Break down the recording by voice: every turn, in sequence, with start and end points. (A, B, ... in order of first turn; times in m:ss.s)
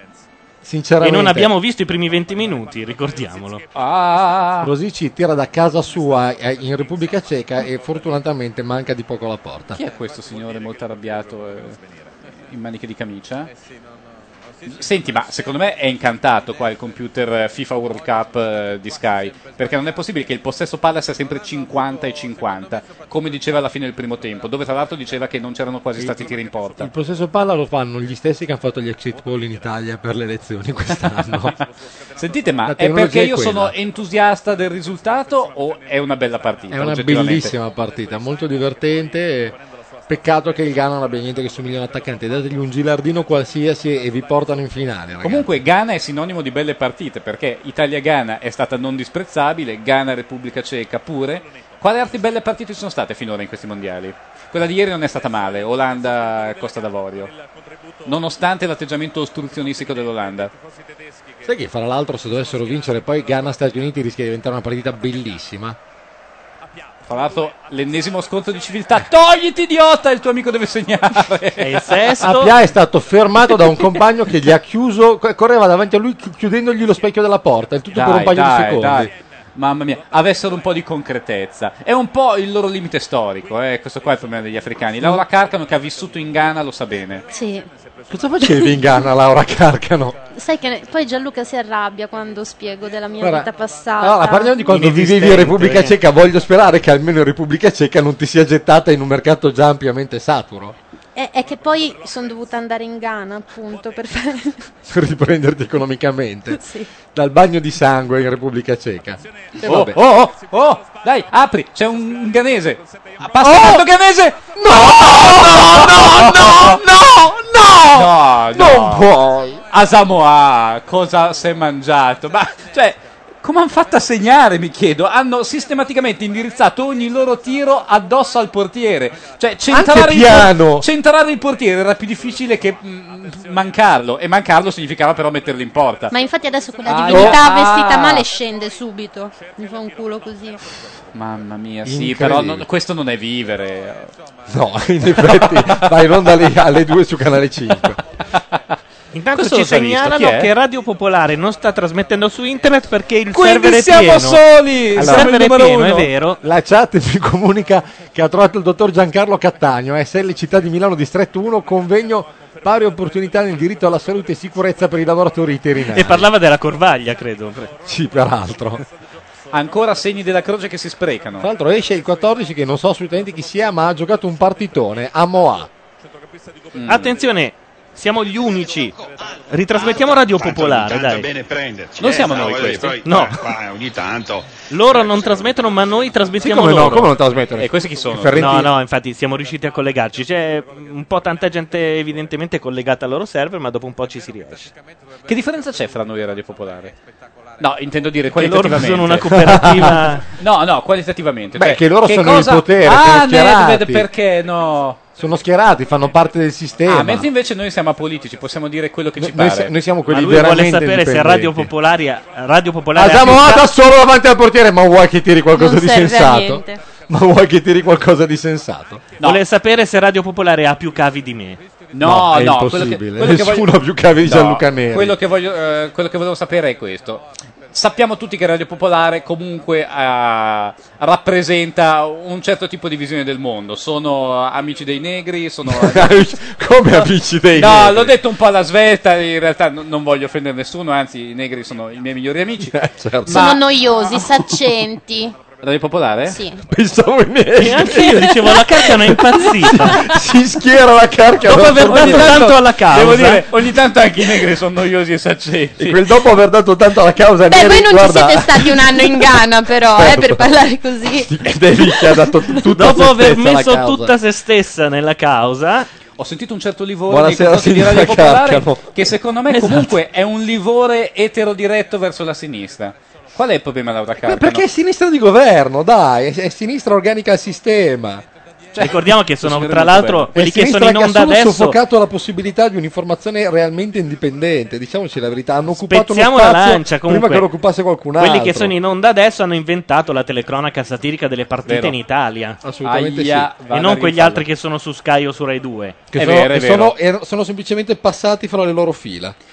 0:00.6-0:01.5 A
0:01.0-0:03.6 B
0:03.8-0:04.7 C
0:04.6-0:09.8 A
0:09.7-0:11.8 C
0:12.4-0:13.5 C
0:14.7-0:26.9 C
0:26.8-0:31.6 A
0:32.2-0:37.6 C
0:32.6-0:33.7 A
0:36.7-0:39.6 A
0:40.1-0:45.5 A
0:45.2-0:57.3 C
0:58.0-1:00.5 C
1:01.4-1:05.8 A
1:07.1-1:12.1 C
1:11.6-1:12.5 B
1:12.2-1:19.1 A
1:17.9-1:27.3 C
1:27.3-1:27.7 D
1:28.1-1:30.2 A
1:30.3-1:34.7 D
1:33.2-1:40.8 A
1:34.7-1:36.0 B
1:41.2-1:44.7 D
1:44.9-1:46.6 A
1:46.5-1:46.9 D
1:47.1-1:50.0 A
1:49.6-1:56.8 C
1:53.4-1:53.9 A
1:54.6-1:59.6 A
1:57.9-1:59.1 C
1:59.7-2:16.1 C
2:09.7-2:10.9 A
2:16.1-2:20.6 D
2:16.8-2:18.3 C
2:17.1-2:17.4 A
2:21.1-2:24.1 C
2:21.8-2:22.7 A
2:24.5-2:28.0 A
2:25.1-2:26.1 C
2:29.1-2:36.4 B
2:29.3-2:30.5 C
2:33.3-2:36.1 C
2:35.0-2:35.3 A
2:36.4-2:46.3 A
2:45.9-2:47.7 B
2:47.9-2:48.8 A
2:49.5-2:51.5 C
2:51.4-2:55.7 A
2:56.7-2:57.2 C
2:56.9-2:59.0 B
2:59.5-3:01.3 B
2:59.8-3:04.6 E
3:02.0-3:03.0 C
3:03.0-3:03.4 B
3:04.7-3:07.1 B
3:06.4-3:08.7 A
3:07.6-3:08.6 C
3:08.4-3:14.7 B
3:15.3-3:17.0 C
3:17.6-3:19.7 C
3:18.4-3:20.3 B
3:19.3-3:20.1 A
3:20.4-3:25.0 C
3:21.6-3:24.1 A
3:25.2-3:27.3 A
3:26.9-3:29.7 C
3:29.2-3:31.7 A
3:30.1-3:33.7 B
3:33.0-3:39.0 A
3:35.5-3:36.8 D
3:39.2-3:41.6 B
3:41.9-3:43.7 C
3:42.0-3:45.2 A
3:44.2-3:56.2 C
3:55.7-3:58.2 A
3:57.5-4:04.4 C
4:02.6-4:03.6 A
4:03.3-4:05.4 D
4:05.6-4:06.4 C
4:06.3-4:06.6 D
4:06.6-4:12.5 A
4:07.6-4:10.1 B
4:11.4-4:13.4 B
4:11.6-4:16.0 C
4:15.8-4:20.6 A
4:17.5-4:22.4 D
4:21.2-4:24.1 A
4:22.6-4:25.9 B
4:26.2-4:34.7 C
4:27.1-4:29.0 A
4:29.5-4:29.9 B
4:34.2-4:38.2 A
4:38.7-4:40.3 C
4:38.8-4:41.8 B
4:40.4-4:48.7 A
4:45.8-4:47.5 B
4:48.2-4:52.6 B
4:51.7-4:52.0 C
4:52.6-4:53.5 A
4:52.8-4:54.4 C
4:53.7-4:56.0 B
4:56.1-4:59.4 A
4:56.2-4:57.0 C